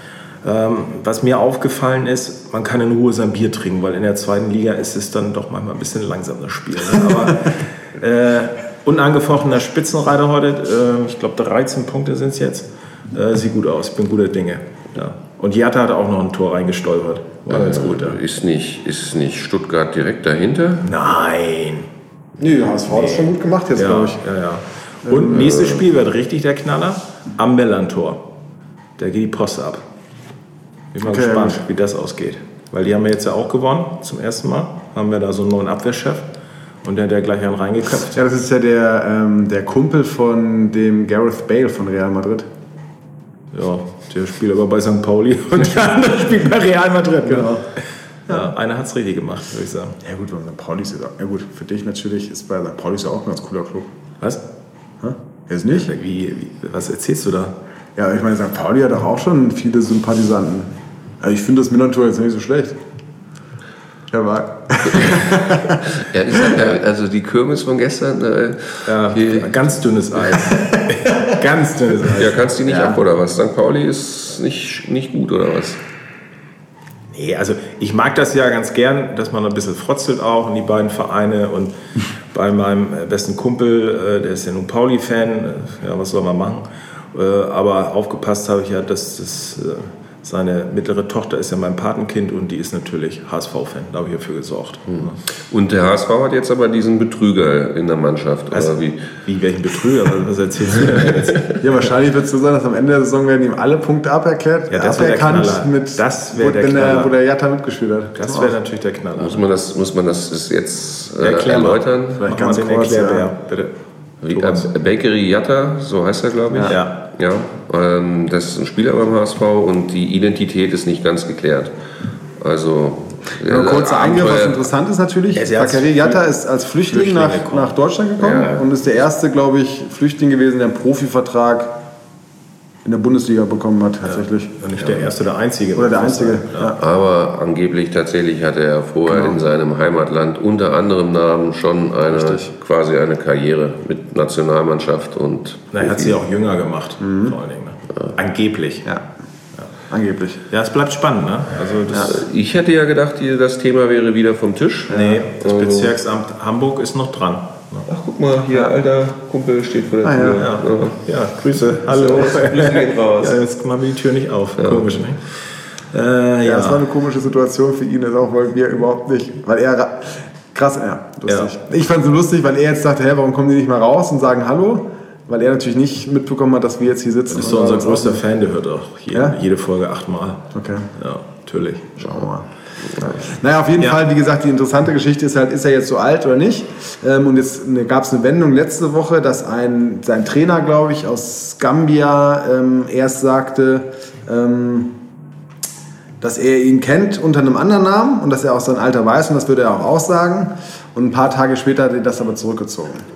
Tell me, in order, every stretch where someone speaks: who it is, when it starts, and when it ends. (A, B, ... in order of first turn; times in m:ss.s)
0:00.4-0:18.2 A
0:17.5-0:20.9 B
0:20.8-0:21.9 A
0:22.4-0:24.2 C
0:22.9-0:28.2 A
0:25.0-0:25.5 C
0:25.4-0:25.8 B
0:29.0-0:29.8 A
0:30.9-0:36.3 A
0:31.0-0:31.6 C
0:36.8-0:38.2 A
0:38.1-0:42.5 C
0:43.5-0:47.6 A
0:47.2-0:47.6 C
0:48.3-0:50.0 A
0:50.0-0:53.9 C
0:55.0-0:55.9 C
0:55.7-0:57.6 A
0:58.0-1:02.8 C
1:04.1-1:06.6 C
1:04.9-1:09.7 B
1:08.9-1:12.4 A
1:12.2-1:15.8 B
1:12.7-1:13.0 C
1:17.1-1:21.8 A
1:22.3-1:35.2 A
1:35.5-1:39.0 B
1:38.5-1:41.5 A
1:41.6-1:48.6 C
1:44.7-1:47.1 A
1:48.2-1:49.4 A
1:49.2-1:52.3 B
1:51.2-1:53.7 A
1:52.2-1:53.3 C
1:54.2-2:01.7 B
1:54.3-1:54.7 A
1:56.7-1:57.0 A
2:02.4-2:04.6 B
2:03.4-2:11.7 C
2:05.3-2:06.2 A
2:06.9-2:07.7 A
2:08.2-2:08.7 B
2:12.8-2:14.5 C
2:14.1-2:16.8 A
2:15.8-2:16.8 C
2:16.8-2:26.2 B
2:19.1-2:19.4 C
2:25.7-2:29.0 A
2:27.0-2:27.4 C
2:29.9-2:30.4 C
2:30.5-2:32.2 A
2:31.9-2:36.0 B
2:34.9-2:37.9 A
2:37.9-2:41.0 B
2:40.0-2:40.5 C
2:40.4-2:45.4 A
2:41.9-2:43.4 B
2:44.6-2:45.0 B
2:45.9-2:46.9 A
2:46.4-2:58.2 C
2:51.3-2:51.5 A
2:57.3-3:02.2 A
2:59.1-2:59.4 C
3:00.5-3:00.9 C
3:02.0-3:02.5 C
3:03.0-3:14.9 C
3:16.2-3:23.1 C